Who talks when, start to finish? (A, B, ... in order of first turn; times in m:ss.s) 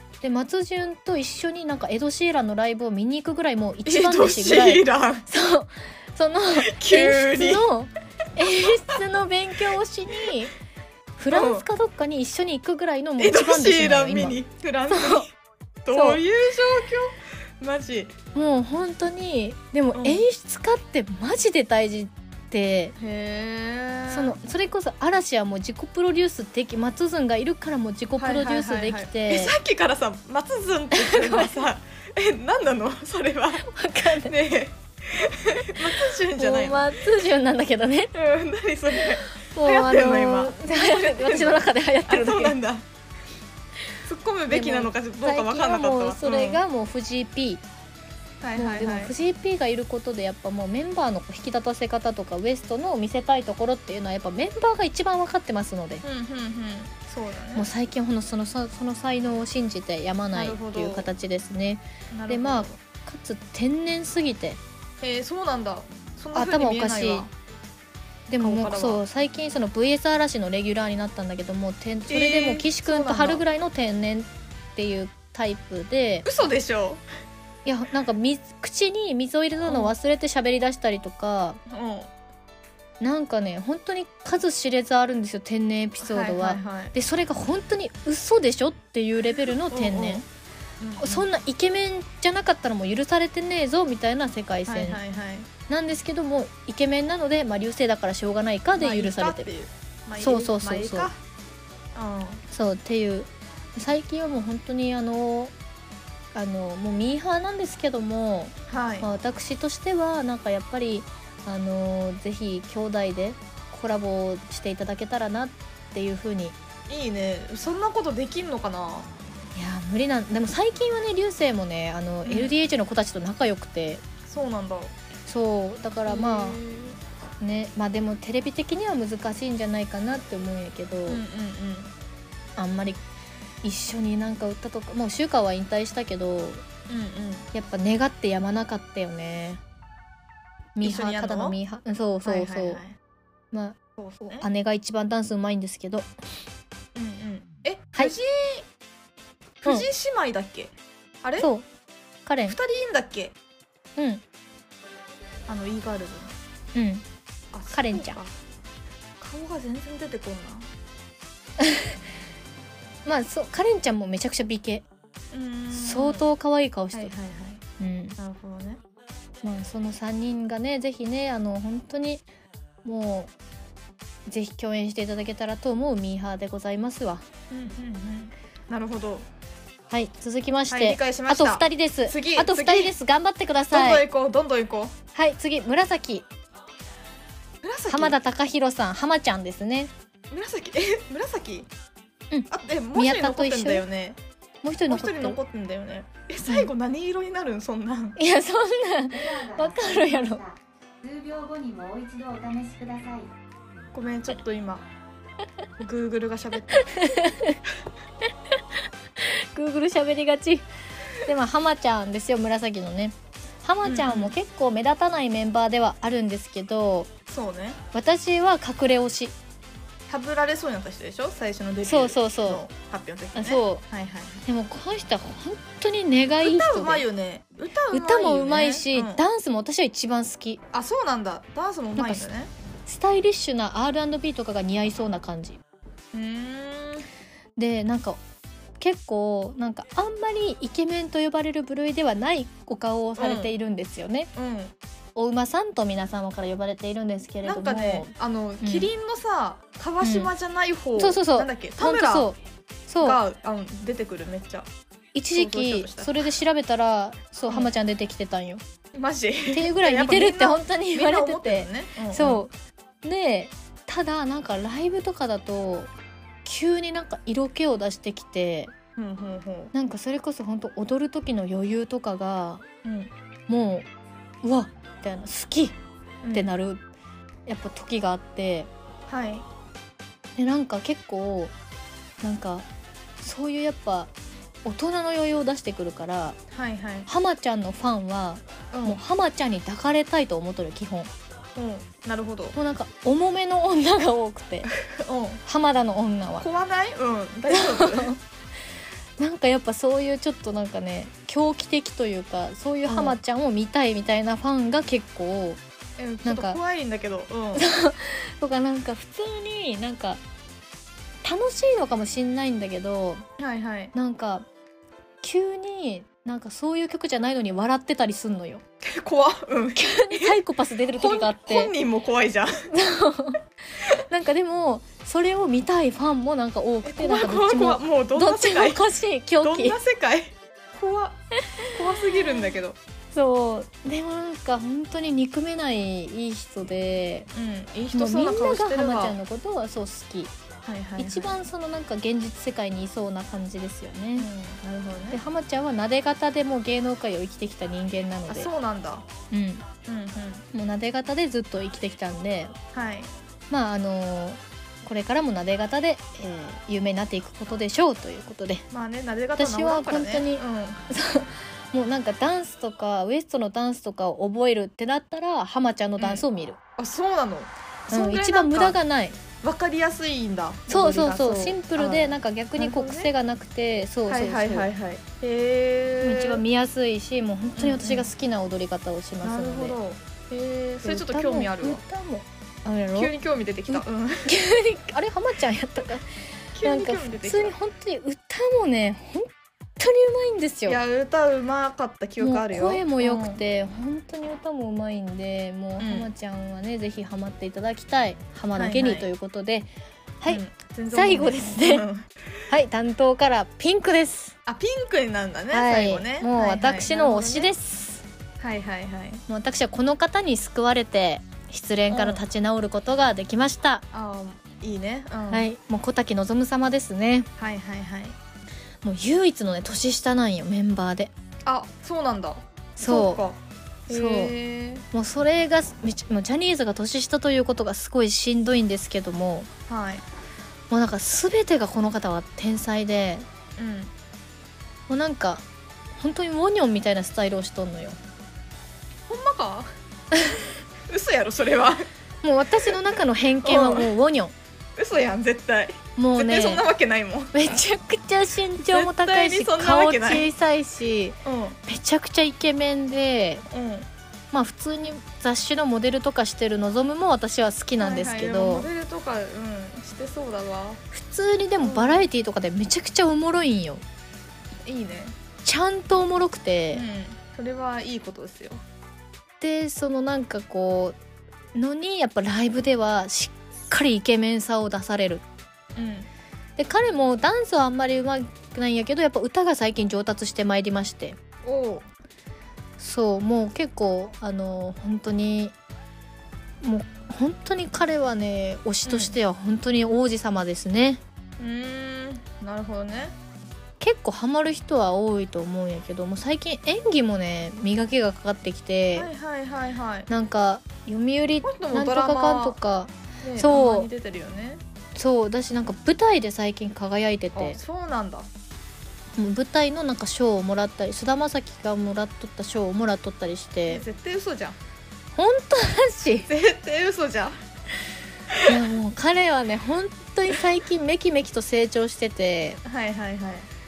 0:00.2-0:10.5 A
0:03.8-0:05.2 B
0:06.6-0:07.7 B
0:08.4-0:09.0 B
0:11.2-0:14.4 A
0:11.3-0:11.7 B
0:13.2-0:15.3 B
0:14.9-0:15.3 A
0:15.8-0:18.1 B
0:15.9-0:16.2 A
0:18.3-0:22.9 A
0:19.9-0:20.2 B
0:23.0-0:24.4 B
0:24.1-0:29.6 A
0:28.2-0:36.9 B
0:30.9-0:31.6 A
0:33.6-0:34.3 A
0:35.8-0:38.1 A
0:38.1-0:42.8 B
0:39.0-0:42.6 A
0:44.0-0:46.6 B
0:44.5-0:47.6 A
0:48.4-0:49.1 B
0:48.6-0:56.0 A
0:56.0-0:57.7 B
0:57.5-1:04.6 A
1:00.3-1:01.1 B
1:02.1-1:02.8 B
1:05.0-1:07.3 B
1:06.3-1:07.3 A
1:08.3-1:16.2 A
1:08.4-1:09.0 B
1:12.1-1:13.4 B
1:16.2-1:17.0 B
1:17.6-1:21.6 A
1:19.6-1:19.9 B
1:21.7-1:22.1 B
1:23.0-1:30.2 A
1:26.0-1:26.9 B
1:29.5-1:30.2 B
1:30.8-1:31.3 B
1:31.0-1:35.0 A
1:34.7-1:35.5 B
1:35.7-1:39.5 A
1:38.7-1:41.2 B
1:40.2-1:41.1 A
1:41.9-1:42.4 B
1:42.5-1:45.5 A
1:46.3-1:56.6 A
1:48.7-1:49.1 B
1:56.9-1:59.1 B
1:59.5-2:04.0 A
2:02.2-2:02.5 B
2:04.2-2:05.0 B
2:05.2-2:06.6 A
2:06.0-2:07.0 B
2:07.4-2:11.2 A
2:11.1-2:11.9 B
2:12.6-2:13.0 A
2:13.6-2:16.6 A
2:16.9-2:17.5 B
2:17.5-2:19.6 A
2:20.8-2:22.8 A
2:20.8-2:21.6 B
2:22.2-2:23.0 B
2:23.5-2:26.1 A
2:24.0-2:24.4 B
2:26.9-2:28.7 B
2:29.6-2:31.5 B
2:31.4-2:31.6 A
2:32.2-2:32.6 A
2:32.4-2:33.3 B
2:34.0-2:34.2 A
2:35.5-2:36.4 B
2:36.7-2:37.0 A
2:37.5-2:38.3 B
2:37.7-2:38.2 A
2:39.2-2:40.7 B
2:41.6-2:42.0 A
2:43.0-2:44.8 A
2:45.3-2:46.3 B
2:45.7-2:47.1 A
2:46.9-2:47.6 B
2:47.8-2:48.2 A
2:48.2-2:48.8 B
2:49.4-2:52.2 A
2:52.8-2:53.3 A
2:54.2-2:57.2 A
2:57.5-2:59.3 B
2:59.9-3:04.0 A
3:00.7-3:02.9 B
3:03.7-3:05.0 B
3:05.1-3:06.2 A
3:07.6-3:08.2 B
3:07.9-3:09.9 A
3:10.3-3:11.7 B
3:12.3-3:13.8 A
3:12.5-3:14.2 B
3:14.6-3:15.4 A
3:14.9-3:18.2 B
3:16.4-3:16.7 A
3:18.2-3:20.4 A
3:19.1-3:23.3 C
3:23.9-3:24.8 B
3:25.8-3:26.9 B
3:26.7-3:27.6 A
3:29.2-3:37.1 A
3:33.8-3:34.3 B
3:37.3-3:37.8 B
3:37.9-3:39.3 A
3:40.1-3:44.4 B
3:41.8-3:42.6 A
3:43.4-3:43.8 A
3:44.4-3:47.0 A
3:46.4-3:49.2 B
3:47.9-3:50.6 A
3:50.7-3:52.5 B
3:52.0-3:52.2 A
3:52.8-3:55.6 A
3:56.1-3:57.0 B
3:57.6-3:58.2 A
3:58.8-4:04.3 A
4:03.2-4:03.5 B
4:04.3-4:04.7 B
4:05.2-4:08.1 A
4:07.4-4:12.3 B
4:08.6-4:08.9 A
4:10.0-4:10.3 A
4:11.0-4:13.2 A
4:13.0-4:14.7 B
4:15.1-4:18.6 A
4:15.3-4:16.3 B
4:18.9-4:22.4 B
4:19.5-4:22.5 A
4:23.0-4:25.9 A
4:26.4-4:28.7 A
4:29.0-4:29.7 B
4:29.7-4:32.6 A
4:32.8-4:33.1 B
4:33.5-4:33.9 A
4:34.4-4:35.8 A
4:36.2-4:36.5 B
4:36.3-4:36.8 A
4:37.5-4:38.7 A
4:39.1-4:39.4 B
4:40.4-4:41.5 A
4:42.2-4:42.6 A
4:43.2-4:44.1 A
4:44.6-4:46.4 A
4:46.5-4:47.1 B
4:47.1-4:51.1 A
4:48.7-4:49.0 B
4:51.6-4:52.6 B
4:52.5-4:54.7 A
4:54.8-4:55.4 B
4:55.4-4:56.5 A
4:56.4-4:58.1 B
4:57.5-4:58.2 A
4:59.2-5:05.6 A
5:02.8-5:03.2 B
5:06.0-5:07.6 B
5:06.2-5:06.6 A
5:07.5-5:10.2 A
5:11.2-5:13.2 A
5:13.4-5:13.9 B
5:13.9-5:14.4 A
5:15.2-5:18.6 A
5:18.8-5:20.4 B
5:19.8-5:21.7 A
5:20.9-5:22.7 B
5:22.7-5:23.4 A
5:24.0-5:29.8 A
5:26.8-5:28.8 B
5:29.4-5:32.8 B
5:31.6-5:32.5 A
5:33.1-5:37.3 A
5:37.3-5:39.2 B
5:37.9-5:40.3 A
5:40.6-5:41.4 B
5:41.0-5:44.3 A
5:44.2-5:45.2 B
5:45.1-5:48.5 A
5:48.3-5:49.0 B
5:49.3-5:49.6 A
5:49.9-5:50.4 B
5:50.5-5:52.5 A
5:52.7-5:53.1 B
5:53.5-5:58.6 A
5:58.7-6:00.8 B
5:59.4-6:06.6 A
6:06.0-6:06.2 B
6:06.8-6:08.8 B
6:07.9-6:09.2 A
6:09.4-6:13.1 B
6:10.7-6:14.7 A
6:14.1-6:16.4 B
6:16.0-6:19.8 A
6:17.6-6:18.1 B
6:19.2-6:21.8 B
6:20.8-6:23.1 A
6:22.9-6:24.3 B
6:23.7-6:26.0 A
6:26.5-6:27.5 B
6:26.6-6:30.8 A
6:30.7-6:33.4 B
6:32.2-6:39.7 A
6:35.8-6:36.1 B
6:38.6-6:39.1 B
6:40.2-6:41.8 A
6:40.3-6:42.1 B
6:42.5-6:44.4 A
6:44.4-6:47.5 B
6:45.5-6:48.0 A
6:48.4-6:49.2 B
6:49.3-6:53.8 A
6:51.9-6:52.2 B
6:53.9-6:55.5 B
6:55.3-6:57.3 A
6:57.4-6:58.2 B
6:58.8-7:01.1 A
7:01.4-7:04.8 B
7:02.8-7:03.2 A
7:03.9-7:04.3 A
7:04.9-7:09.5 A
7:09.7-7:10.0 B
7:10.7-7:13.2 A
7:13.6-7:13.9 B
7:14.9-7:15.4 A
7:16.0-7:18.0 A
7:19.1-7:19.7 B
7:20.1-7:20.4 A
7:20.9-7:21.9 B
7:22.2-7:24.3 A
7:23.4-7:23.9 B
7:24.8-7:27.6 B
7:26.0-7:26.7 A
7:27.3-7:33.4 A
7:28.6-7:30.3 B
7:31.2-7:31.6 B
7:33.5-7:33.9 B
7:34.3-7:38.7 A
7:37.8-7:40.8 B
7:40.9-7:43.8 A
7:41.6-7:42.0 B
7:44.6-7:45.2 B
7:45.4-7:46.8 A
7:46.7-7:48.6 B
7:49.4-7:51.0 A
7:51.5-7:55.2 A
7:55.7-7:56.1 B
7:56.6-8:01.2 A
8:01.4-8:01.9 B
8:02.8-8:05.5 A
8:06.6-8:11.0 A
8:08.8-8:09.2 B
8:11.4-8:13.1 B
8:13.8-8:19.1 A
8:18.9-8:20.1 B
8:20.1-8:23.9 A
8:21.4-8:22.6 B
8:23.2-8:24.6 B
8:24.9-8:27.6 A
8:27.3-8:28.3 B
8:29.2-8:33.8 A
8:33.7-8:34.6 B
8:35.2-8:36.3 A
8:36.3-8:37.4 B
8:38.3-8:38.6 B
8:38.4-8:42.6 A
8:42.6-8:43.5 B